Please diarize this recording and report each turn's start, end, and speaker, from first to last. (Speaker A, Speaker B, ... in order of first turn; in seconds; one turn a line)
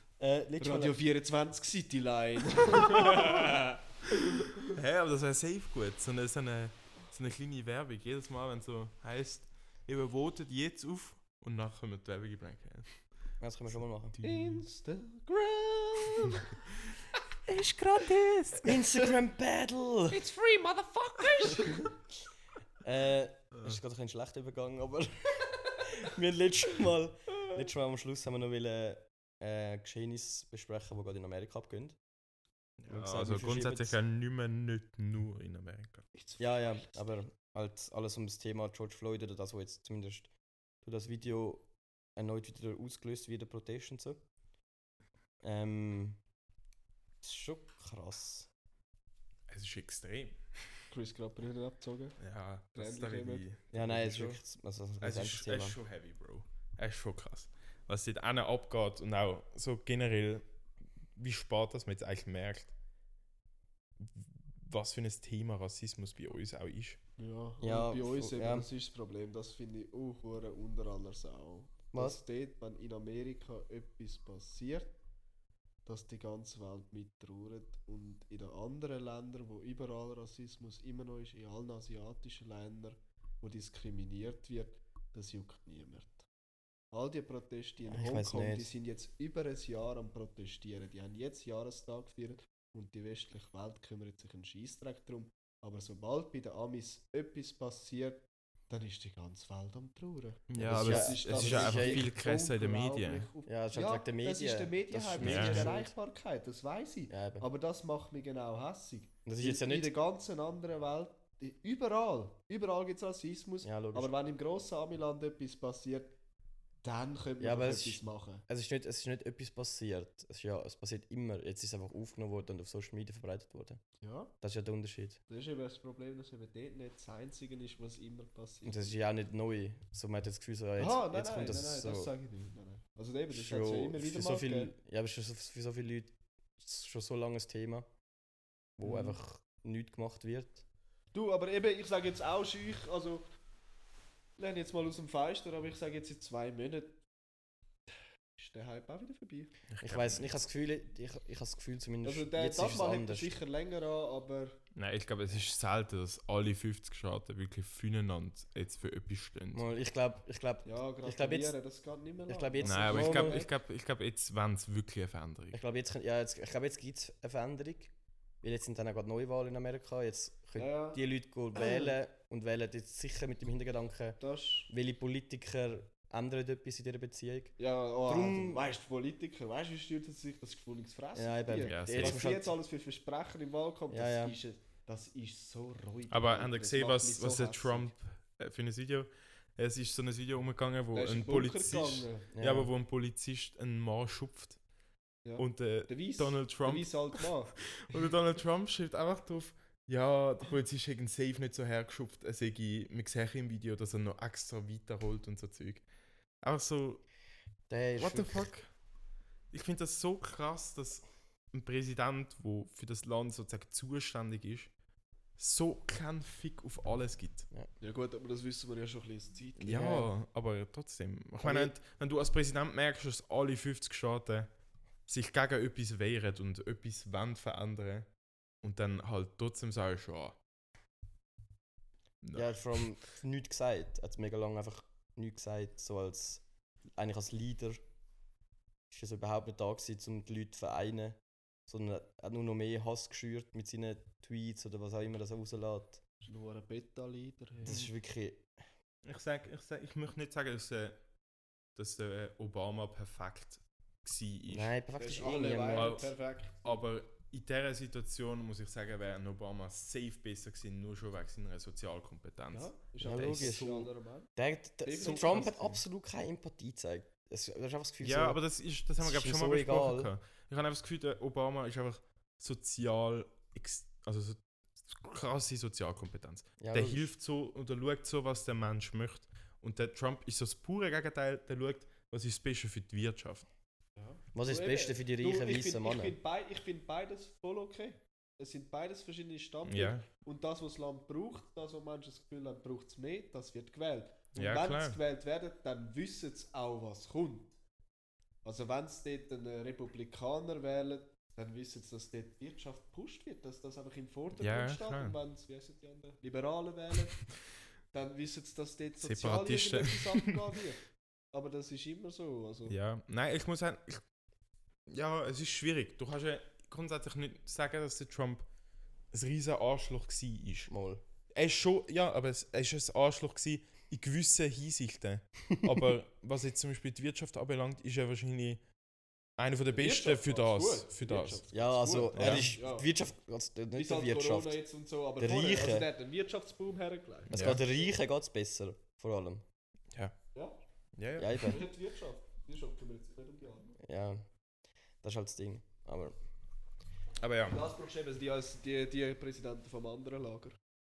Speaker A: 0.2-1.0
Speaker B: 0.6-4.7
Speaker C: 2.9-3.6
Speaker C: 4.7-13.0
Speaker A: 13.4-14.2
Speaker C: 14.2-14.6
Speaker B: 14.2-16.6
Speaker C: 17.5-18.8
Speaker A: 18.6-20.2
Speaker B: 20.1-21.9
Speaker A: 22.8-32.0
Speaker C: 32.8-36.0
Speaker A: 32.9-34.0
Speaker B: 36.1-37.1
Speaker A: 36.4-40.3
Speaker A: 40.8-44.2
Speaker A: 45.4-46.2
Speaker A: 47.2-48.5
Speaker C: 49.5-50.8
Speaker B: 50.9-52.2
Speaker C: 52.2-54.4
Speaker B: 52.8-53.5
Speaker A: 53.7-55.8
Speaker C: 55.0-60.5
Speaker C: 61.1-62.7
Speaker C: 64.0-67.0
Speaker B: 67.2-75.0
Speaker A: 67.6-68.7
Speaker A: 71.9-72.2
Speaker B: 75.9-86.3
Speaker B: 86.9-116.1
Speaker A: 87.9-88.7
Speaker C: 100.5-103.3
Speaker A: 100.6-102.1
Speaker A: 103.5-105.9
Speaker C: 105.2-105.7
Speaker A: 107.1-107.5
Speaker A: 109.2-109.9
Speaker A: 113.6-114.1
Speaker B: 116.8-118.4
Speaker A: 117.4-123.8
Speaker B: 124.0-124.3
Speaker A: 124.4-125.2
Speaker B: 125.3-128.9
Speaker A: 128.6-132.1
Speaker B: 130.8-134.7
Speaker A: 133.3-137.9
Speaker A: 138.8-140.6
Speaker B: 138.8-139.2
Speaker B: 141.1-143.2
Speaker B: 144.4-147.0
Speaker B: 148.4-149.5
Speaker C: 149.7-150.3
Speaker A: 149.8-153.3
Speaker B: 152.0-154.6
Speaker C: 154.8-159.7
Speaker A: 159.5-161.5
Speaker B: 160.7-163.5
Speaker A: 162.3-163.5
Speaker C: 162.6-165.6
Speaker A: 165.5-177.5
Speaker B: 170.6-171.0
Speaker B: 171.5-171.9
Speaker B: 174.2-174.7
Speaker B: 177.6-187.9
Speaker A: 178.1-178.6
Speaker A: 181.2-182.6
Speaker C: 181.6-182.2
Speaker A: 183.9-184.3
Speaker C: 186.1-194.6
Speaker B: 190.9-192.3
Speaker A: 192.3-192.7
Speaker B: 195.2-197.8
Speaker C: 195.4-205.8
Speaker C: 206.4-207.1
Speaker A: 207.7-208.5
Speaker C: 208.0-208.7
Speaker C: 209.5-214.7
Speaker C: 215.4-217.5
Speaker B: 217.8-220.1
Speaker C: 219.6-224.5
Speaker A: 219.7-220.0
Speaker A: 221.4-221.7
Speaker C: 225.1-228.1
Speaker C: 228.6-230.4
Speaker C: 232.2-232.8
Speaker A: 232.3-236.4
Speaker A: 237.0-237.8
Speaker A: 238.9-246.0
Speaker B: 246.2-247.8
Speaker A: 247.7-248.5
Speaker C: 249.0-251.0
Speaker C: 251.8-254.8
Speaker A: 254.5-256.0
Speaker B: 255.0-256.8
Speaker C: 255.7-256.1
Speaker C: 256.6-263.6
Speaker B: 262.5-264.3
Speaker A: 263.0-268.4
Speaker B: 264.8-265.8
Speaker C: 268.0-283.5
Speaker A: 269.0-270.1
Speaker A: 276.6-277.1
Speaker B: 284.0-297.5
Speaker A: 284.3-286.1
Speaker C: 289.6-290.1
Speaker C: 294.4-295.0
Speaker B: 298.4-307.3
Speaker C: 304.4-305.2
Speaker B: 307.9-312.8
Speaker C: 309.0-310.4
Speaker C: 312.7-314.0
Speaker C: 314.9-318.5
Speaker C: 319.1-320.7
Speaker A: 320.7-321.0
Speaker C: 321.3-328.6
Speaker C: 329.4-331.4
Speaker B: 329.7-332.9
Speaker A: 331.5-334.6
Speaker C: 332.1-332.6
Speaker B: 333.8-337.9
Speaker A: 335.2-335.9
Speaker A: 337.3-339.4
Speaker C: 337.3-337.6
Speaker C: 341.0-341.6
Speaker A: 341.2-341.6
Speaker B: 341.4-343.7
Speaker A: 343.8-344.3
Speaker A: 345.0-346.2
Speaker C: 347.2-347.6
Speaker B: 347.5-350.6